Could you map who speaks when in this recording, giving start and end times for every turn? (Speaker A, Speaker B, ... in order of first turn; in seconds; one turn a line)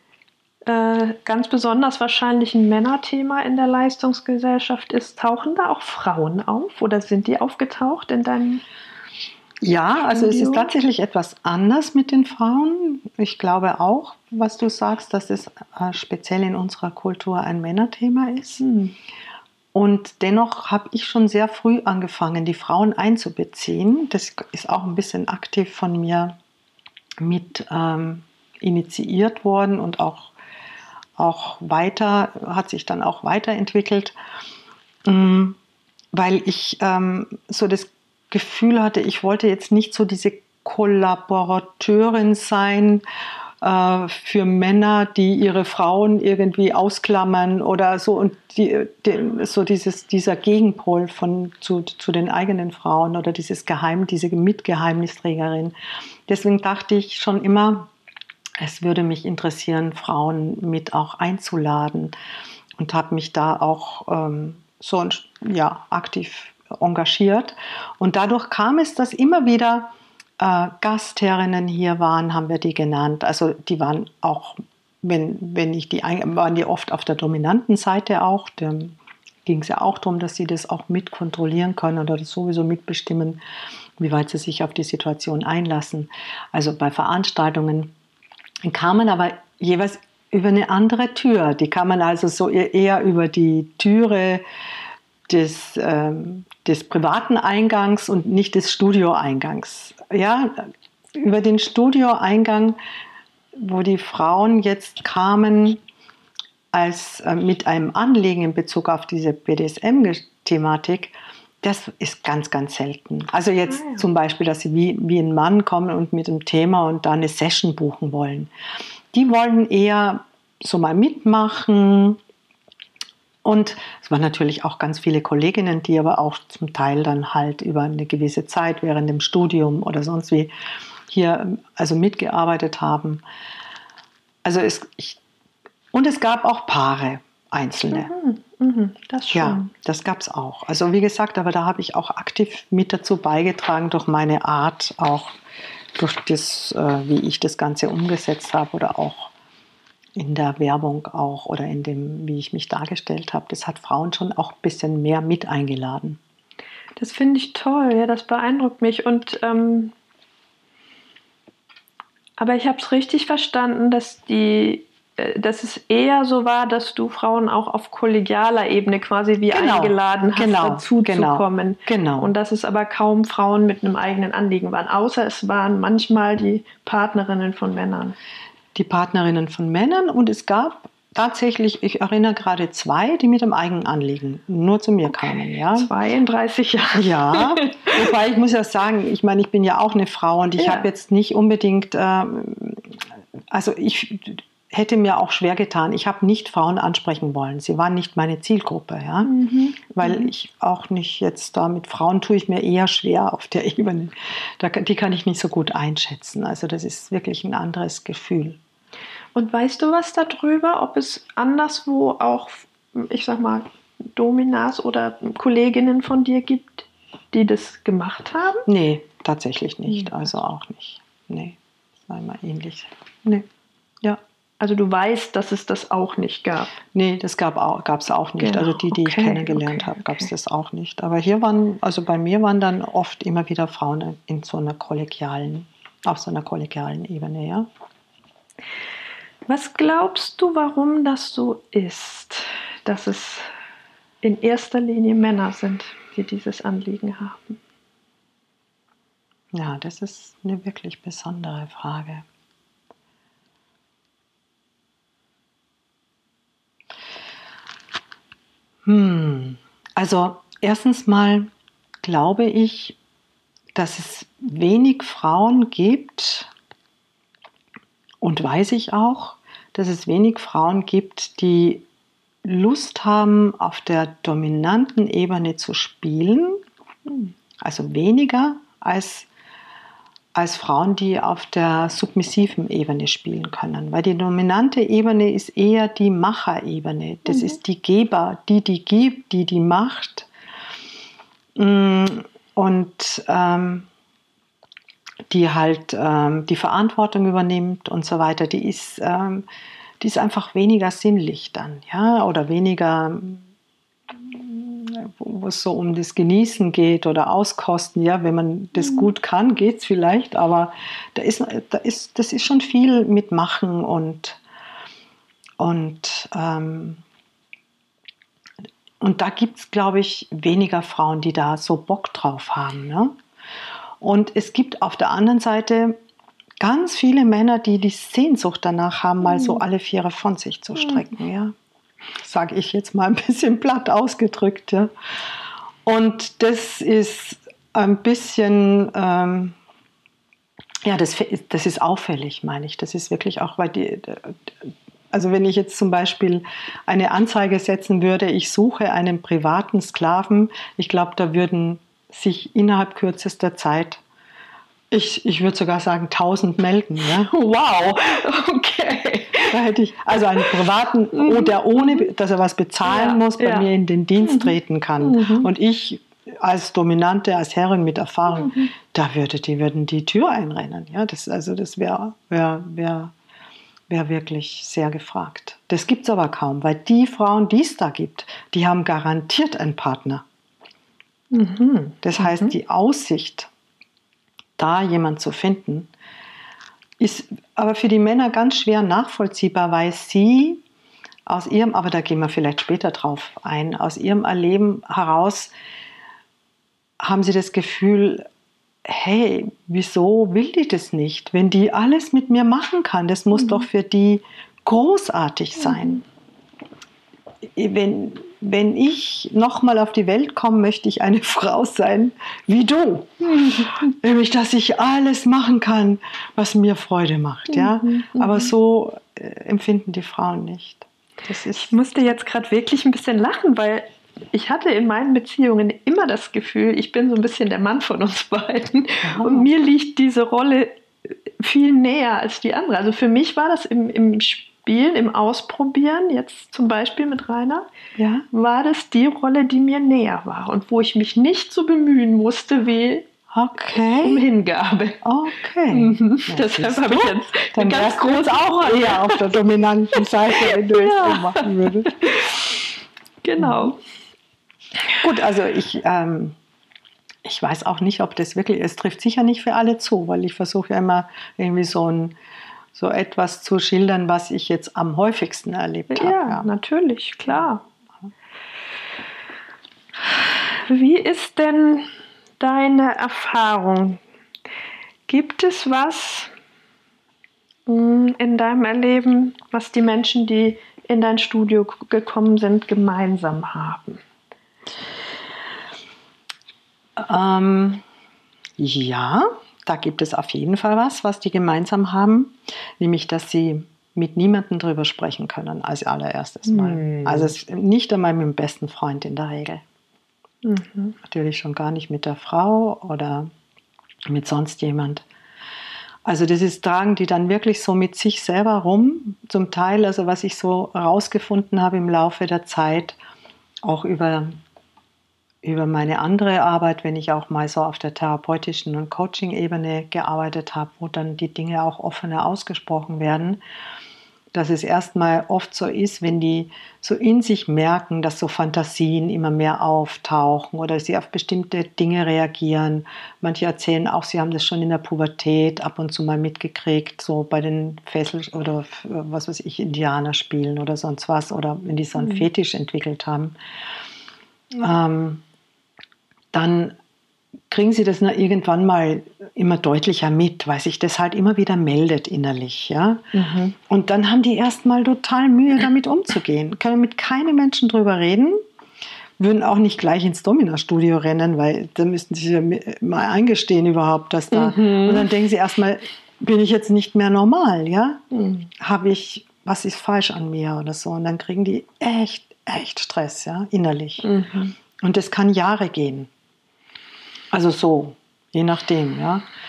Speaker A: 0.7-8.6
Speaker B: 9.6-18.6
Speaker A: 10.1-10.7
Speaker A: 18.6-18.9
Speaker B: 19.7-26.4
Speaker B: 27.2-30.3
Speaker B: 31.2-34.1
Speaker B: 35.0-35.6
Speaker B: 36.1-43.0
Speaker B: 43.6-55.7
Speaker B: 56.3-57.9
Speaker B: 58.6-62.1
Speaker B: 62.8-83.4
Speaker B: 84.0-87.9
Speaker B: 88.6-94.4
Speaker B: 95.3-102.8
Speaker B: 103.5-105.8
Speaker B: 106.7-118.5
Speaker A: 113.7-114.0
Speaker B: 119.1-122.2
Speaker B: 123.4-130.5
Speaker B: 131.1-133.2
Speaker B: 134.4-135.2
Speaker B: 135.9-138.1
Speaker A: 137.9-139.7
Speaker B: 139.3-145.4
Speaker B: 146.0-149.3
Speaker B: 150.2-156.2
Speaker A: 157.0-159.9
Speaker A: 162.4-178.2
Speaker B: 169.5-172.3
Speaker B: 178.8-185.9
Speaker A: 185.7-188.1
Speaker B: 186.9-193.0
Speaker A: 190.6-190.9
Speaker B: 193.5-199.3
Speaker A: 199.2-200.3
Speaker B: 199.9-208.6
Speaker A: 209.3-218.7
Speaker B: 218.7-223.5
Speaker A: 224.6-226.8
Speaker B: 226.9-237.7
Speaker A: 228.4-230.2
Speaker A: 239.5-243.5
Speaker A: 244.2-247.5
Speaker B: 249.5-252.2
Speaker B: 258.9-261.5
Speaker B: 262.0-263.0
Speaker B: 263.7-266.5
Speaker B: 268.2-271.9
Speaker B: 272.4-276.6
Speaker B: 277.6-279.3
Speaker B: 280.3-290.3
Speaker A: 287.3-287.6
Speaker B: 291.6-293.9
Speaker B: 295.3-299.5
Speaker B: 300.0-303.4
Speaker B: 304.1-314.4
Speaker B: 315.6-317.0
Speaker B: 319.0-323.2
Speaker B: 324.0-326.0
Speaker B: 326.6-331.5
Speaker A: 329.2-329.6
Speaker B: 332.2-334.9
Speaker B: 335.9-339.6
Speaker B: 340.9-354.0
Speaker B: 354.9-357.3
Speaker A: 357.1-359.6
Speaker B: 359.5-373.1
Speaker A: 361.1-362.1
Speaker A: 362.9-365.5
Speaker A: 368.4-368.7
Speaker B: 373.9-380.2
Speaker A: 381.3-382.6
Speaker B: 382.0-383.5
Speaker B: 384.6-385.9
Speaker B: 387.0-390.6
Speaker B: 391.3-395.5
Speaker B: 397.0-398.3
Speaker B: 398.9-406.0
Speaker A: 405.6-406.0
Speaker B: 407.6-421.8
Speaker A: 413.2-413.9
Speaker A: 417.5-418.5
Speaker A: 421.5-437.7
Speaker B: 429.0-429.5
Speaker B: 438.0-438.3
Speaker A: 438.3-443.1
Speaker B: 443.3-444.2
Speaker A: 444.0-445.0
Speaker B: 445.0-452.0
Speaker A: 445.7-449.2
Speaker A: 450.4-452.4
Speaker A: 453.2-453.8
Speaker B: 453.4-453.7
Speaker B: 455.0-456.4
Speaker B: 457.2-462.1
Speaker B: 462.7-466.5
Speaker A: 465.9-467.6
Speaker A: 470.2-471.9
Speaker A: 472.4-474.0
Speaker A: 475.1-476.3
Speaker A: 477.7-484.0
Speaker B: 487.0-487.8
Speaker B: 488.6-499.6
Speaker A: 496.5-497.4
Speaker A: 500.4-500.9
Speaker B: 501.0-503.3
Speaker B: 504.1-505.1
Speaker B: 506.1-513.0
Speaker B: 513.6-514.4
Speaker B: 515.4-523.4
Speaker B: 524.3-543.4
Speaker B: 544.5-545.2
Speaker B: 546.3-546.8
Speaker B: 547.5-553.1
Speaker A: 553.1-553.5
Speaker B: 553.6-558.4
Speaker B: 559.2-568.0
Speaker A: 564.3-565.1
Speaker A: 568.1-568.5
Speaker B: 568.6-574.1
Speaker A: 574.0-574.5
Speaker B: 574.8-576.1
Speaker B: 577.3-579.2